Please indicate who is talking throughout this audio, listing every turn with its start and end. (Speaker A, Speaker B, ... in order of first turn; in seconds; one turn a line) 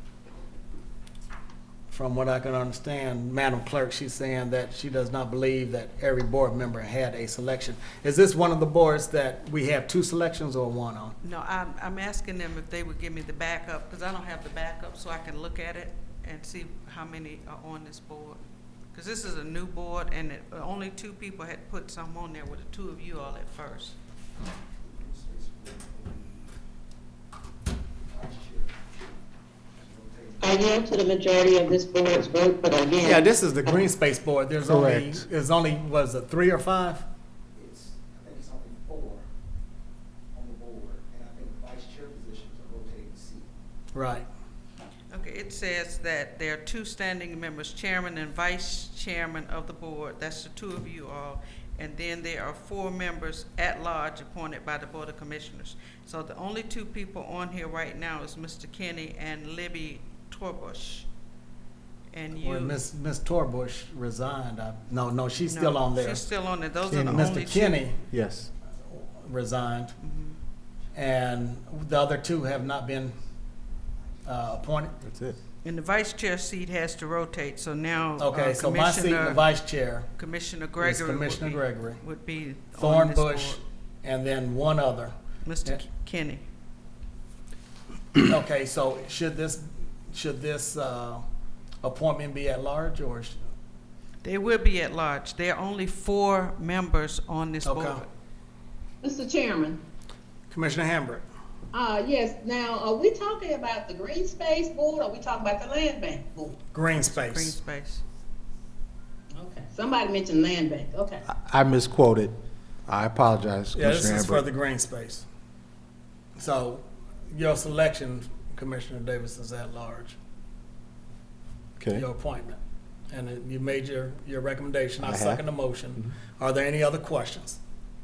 Speaker A: 1.9-11.2
Speaker B: 11.2-18.4
Speaker B: 18.9-23.9
Speaker C: 25.0-26.3
Speaker C: 28.1-28.7
Speaker C: 29.8-30.4
Speaker D: 30.4-33.8
Speaker A: 33.0-37.0
Speaker E: 34.6-35.2
Speaker C: 37.6-39.2
Speaker C: 40.3-43.5
Speaker A: 43.9-44.2
Speaker B: 45.1-61.1
Speaker B: 62.1-62.8
Speaker A: 62.4-66.3
Speaker B: 65.5-67.8
Speaker E: 66.9-67.3
Speaker A: 67.0-68.0
Speaker E: 68.1-68.5
Speaker A: 68.9-69.9
Speaker B: 70.0-70.4
Speaker A: 70.9-73.2
Speaker A: 74.2-75.0
Speaker E: 75.0-75.3
Speaker B: 75.6-79.5
Speaker A: 78.2-80.1
Speaker B: 80.2-83.6
Speaker A: 80.8-82.0
Speaker A: 82.8-85.1
Speaker B: 85.4-86.4
Speaker A: 88.2-91.2
Speaker A: 91.8-93.3
Speaker B: 94.2-98.1
Speaker A: 97.6-98.0
Speaker F: 99.0-99.8
Speaker A: 100.5-101.2
Speaker F: 101.7-106.6
Speaker A: 106.7-107.5
Speaker B: 107.0-108.0
Speaker F: 109.3-111.2
Speaker E: 111.3-112.3
Speaker E: 112.9-114.4
Speaker A: 113.7-115.2
Speaker A: 116.4-120.2
Speaker E: 121.8-122.0
Speaker A: 121.9-122.6
Speaker A: 123.1-127.6
Speaker E: 125.0-125.4